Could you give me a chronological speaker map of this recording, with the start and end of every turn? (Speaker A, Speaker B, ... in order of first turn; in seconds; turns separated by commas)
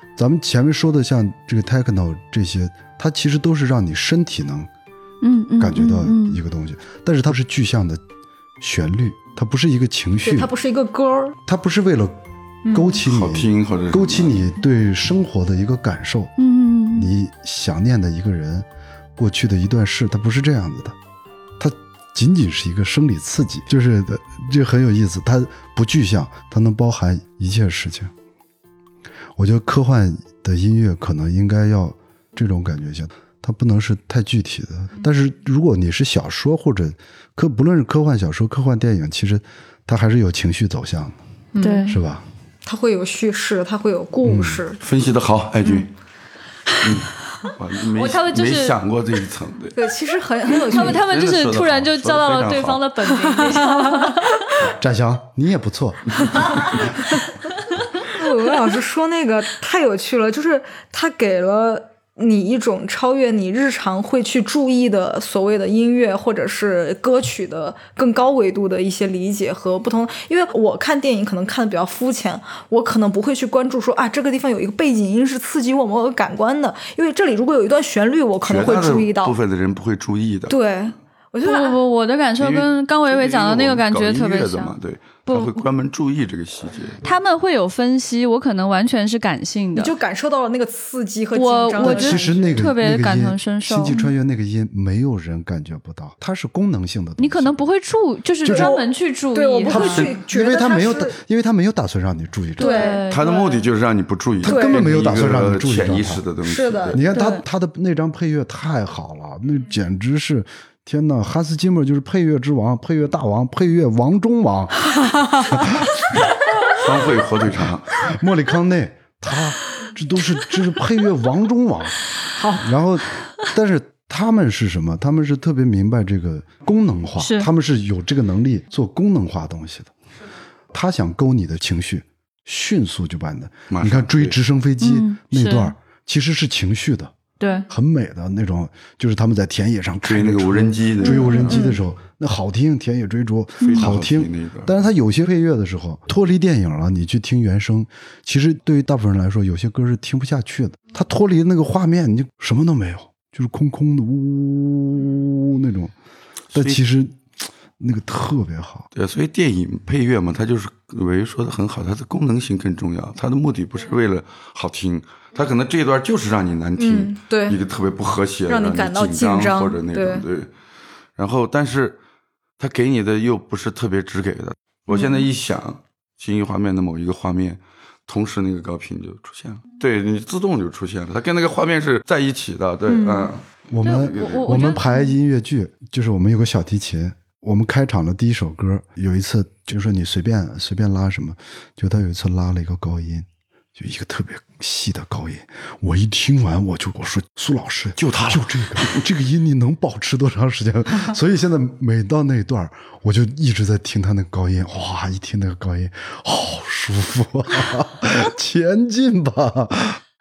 Speaker A: 0.2-4.7, Speaker B: 5.2-6.4, Speaker A: 5.6-8.0, Speaker A: 8.6-10.5, Speaker C: 10.2-11.4, Speaker A: 11.4-16.3, Speaker C: 12.7-13.0, Speaker D: 13.1-14.4, Speaker B: 16.4-17.1, Speaker A: 16.9-21.0, Speaker A: 21.6-28.1, Speaker A: 29.4-41.2, Speaker C: 41.5-41.9, Speaker B: 41.6-42.0, Speaker A: 41.9-42.2, Speaker C: 42.6-44.8, Speaker A: 44.2-44.6, Speaker D: 44.8-45.9, Speaker D: 46.8-49.9, Speaker B: 48.0-48.8, Speaker C: 49.8-51.0, Speaker B: 50.6-54.5, Speaker D: 50.7-52.9, Speaker C: 53.2-54.3, Speaker A: 54.6-56.8, Speaker C: 58.0-79.4, Speaker D: 78.4-80.6, Speaker C: 80.5-81.8, Speaker B: 81.4-84.8, Speaker D: 82.4-87.0, Speaker B: 85.3-85.6, Speaker B: 87.0-89.9, Speaker C: 89.8-92.6, Speaker B: 91.3-94.0, Speaker A: 91.8-97.6, Speaker B: 97.2-100.1, Speaker A: 98.4-98.8, Speaker C: 98.5-101.2, Speaker A: 99.7-102.9, Speaker D: 99.8-100.1, Speaker B: 102.6-103.7, Speaker C: 102.6-103.0, Speaker D: 103.1-107.0, Speaker A: 104.4-106.2, Speaker C: 104.5-104.9, Speaker C: 106.4-107.0, Speaker A: 106.9-114.9, Speaker B: 107.1-107.4, Speaker C: 115.2-115.6, Speaker A: 115.5-115.9, Speaker D: 116.7-118.0, Speaker A: 117.5-122.0, Speaker C: 122.4-122.7, Speaker A: 122.5-129.9, Speaker B: 127.2-127.5, Speaker A: 130.7-137.1, Speaker D: 133.7-134.4, Speaker B: 134.8-135.7, Speaker B: 137.4-137.7, Speaker A: 137.7-155.9, Speaker D: 140.1-141.6, Speaker C: 141.0-141.8, Speaker B: 143.6-143.9, Speaker D: 143.6-144.8, Speaker D: 156.5-156.8, Speaker A: 156.5-158.9, Speaker D: 158.9-170.5, Speaker C: 166.8-167.6, Speaker C: 168.5-170.2, Speaker D: 171.2-172.0, Speaker D: 172.6-184.6, Speaker C: 174.9-175.2, Speaker C: 182.9-183.3, Speaker A: 183.7-210.0, Speaker B: 183.8-185.2, Speaker D: 198.0-199.0